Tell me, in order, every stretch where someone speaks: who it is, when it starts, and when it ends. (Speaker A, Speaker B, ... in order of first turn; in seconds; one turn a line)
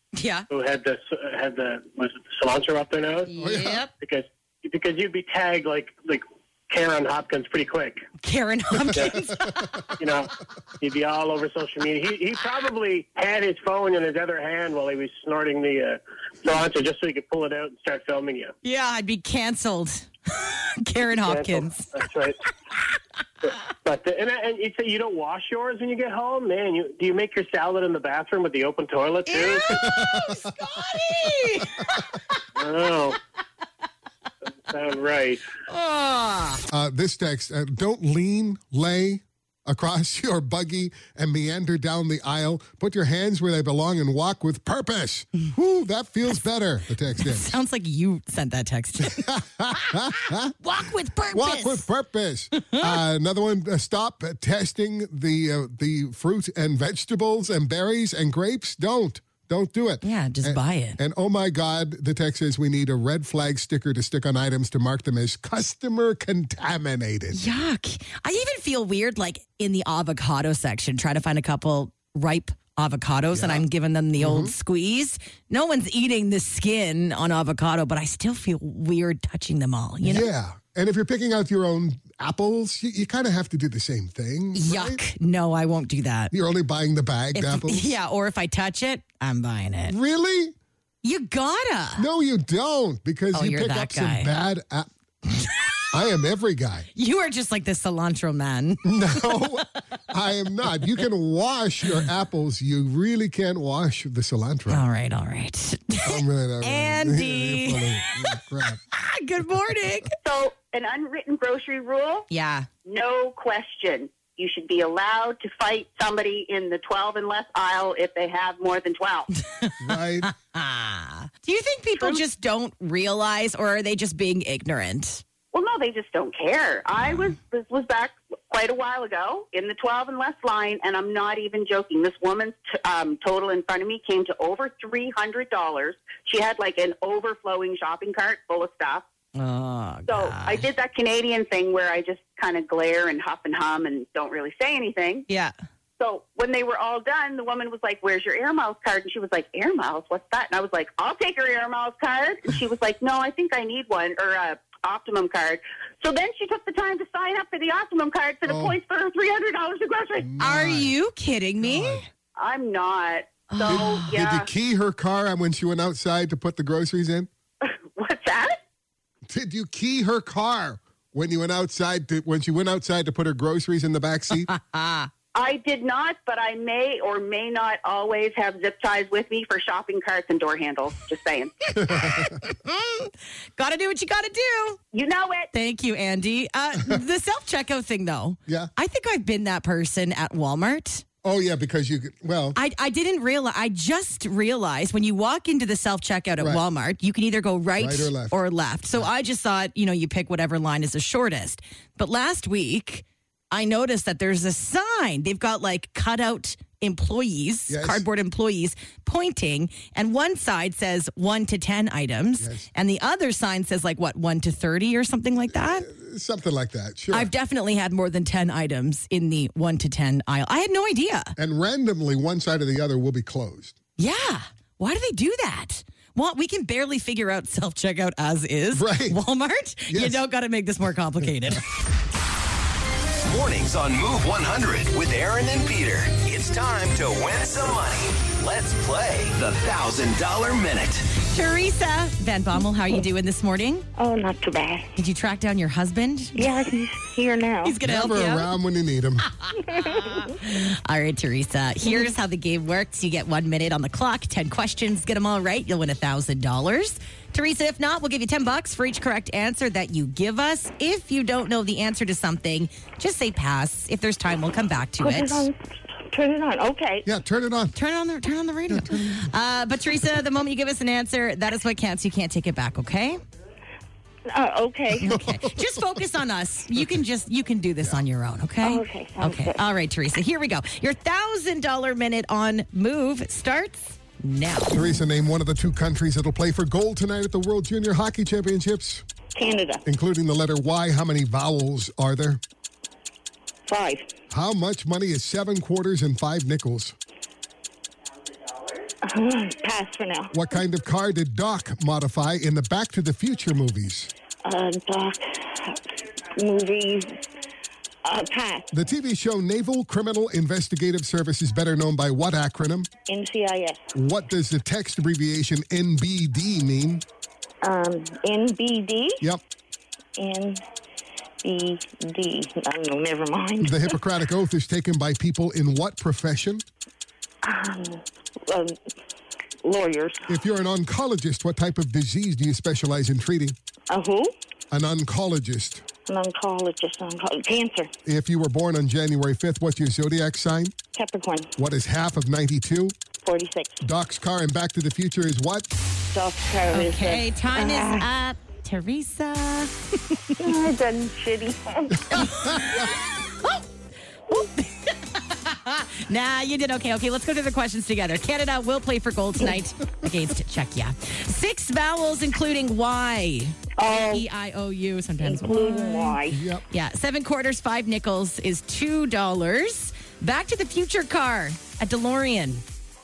Speaker A: 0.1-0.5
Speaker B: 0.5-3.3
Speaker A: 3.3-3.9
Speaker C: 3.4-3.8
Speaker B: 4.0-8.0
Speaker A: 8.2-9.9
Speaker B: 10.0-18.5
Speaker A: 18.6-21.9
Speaker B: 21.2-22.4
Speaker B: 23.8-29.8
Speaker A: 29.2-32.4
Speaker C: 29.6-30.5
Speaker B: 32.6-33.2
Speaker B: 34.7-35.4
Speaker A: 35.7-36.6
Speaker C: 36.7-47.5
Speaker A: 47.2-51.8
Speaker C: 49.0-50.5
Speaker C: 51.3-67.4
Speaker A: 52.6-52.9
Speaker A: 60.0-61.0
Speaker A: 67.3-80.3
Speaker C: 73.3-73.6
Speaker C: 74.2-74.5
Speaker C: 80.0-85.0
Speaker A: 84.5-86.3
Speaker C: 86.3-88.0
Speaker A: 87.3-90.0
Speaker C: 89.9-90.5
Speaker A: 91.0-92.1
Speaker C: 92.0-94.9
Speaker A: 93.3-94.3
Speaker A: 95.3-95.7
Speaker C: 95.9-96.8
Speaker A: 96.9-99.6
Speaker C: 98.8-104.8
Speaker A: 104.7-110.1
Speaker C: 106.0-108.8
Speaker D: 110.2-112.3
Speaker A: 112.3-112.7
Speaker D: 112.8-119.3
Speaker A: 119.6-125.2
Speaker C: 119.8-120.3
Speaker D: 125.5-139.1
Speaker A: 139.3-140.7
Speaker D: 140.1-145.2
Speaker A: 145.3-145.5
Speaker D: 146.0-160.3
Speaker C: 158.4-158.8
Speaker C: 160.2-160.9
Speaker A: 160.4-162.1
Speaker C: 161.6-162.0
Speaker D: 162.3-164.5
Speaker A: 163.5-164.1
Speaker C: 163.7-167.3
Speaker D: 168.0-168.6
Speaker C: 169.3-174.5
Speaker A: 174.4-175.1
Speaker D: 175.3-181.5
Speaker C: 181.8-182.4
Speaker A: 182.0-184.8
Speaker D: 184.9-185.5
Speaker A: 185.5-191.0
Speaker C: 191.2-192.6
Speaker A: 192.5-215.9
Speaker C: 197.8-198.4
Speaker C: 207.7-208.0
Speaker C: 212.4-212.7
Speaker C: 215.5-217.3
Speaker A: 217.1-221.3
Speaker C: 221.3-223.8
Speaker A: 224.0-231.6
Speaker C: 228.7-229.2
Speaker C: 229.9-230.2
Speaker E: 233.2-241.0
Speaker A: 241.2-243.8
Speaker F: 244.0-244.9
Speaker A: 244.9-246.4
Speaker F: 246.3-247.8
Speaker A: 247.6-248.5
Speaker C: 247.8-249.3
Speaker A: 249.3-265.5
Speaker F: 249.8-250.3
Speaker F: 265.0-265.6
Speaker F: 266.1-267.1
Speaker C: 267.0-267.7
Speaker A: 267.7-273.2
Speaker C: 268.7-269.3
Speaker F: 274.3-275.1
Speaker A: 275.0-284.8
Speaker C: 275.0-276.0
Speaker F: 278.6-279.6
Speaker C: 284.7-289.1
Speaker F: 289.3-289.8
Speaker C: 289.8-292.4
Speaker F: 293.7-294.1
Speaker C: 294.3-296.9
Speaker F: 299.0-300.3
Speaker C: 300.3-304.1
Speaker F: 304.4-305.8
Speaker F: 306.4-307.2
Speaker F: 308.0-308.7
Speaker C: 308.7-312.9
Speaker F: 313.1-313.8
Speaker C: 313.9-317.0
Speaker F: 317.6-319.2
Speaker F: 320.2-320.6
Speaker F: 321.4-323.9
Speaker C: 323.6-326.7
Speaker F: 327.4-328.8
Speaker F: 329.6-330.2
Speaker C: 330.3-333.6
Speaker F: 333.9-334.3
Speaker C: 334.7-335.8
Speaker F: 336.1-337.9
Speaker C: 338.1-340.8
Speaker F: 340.9-341.5
Speaker C: 341.6-343.0
Speaker F: 343.2-343.8
Speaker C: 343.8-345.7
Speaker F: 346.1-348.1
Speaker A: 346.7-350.4
Speaker F: 350.4-352.2
Speaker A: 352.1-353.6
Speaker C: 352.1-352.9
Speaker A: 354.3-372.6
Speaker F: 363.8-364.2
Speaker F: 365.2-366.4
Speaker C: 366.3-366.6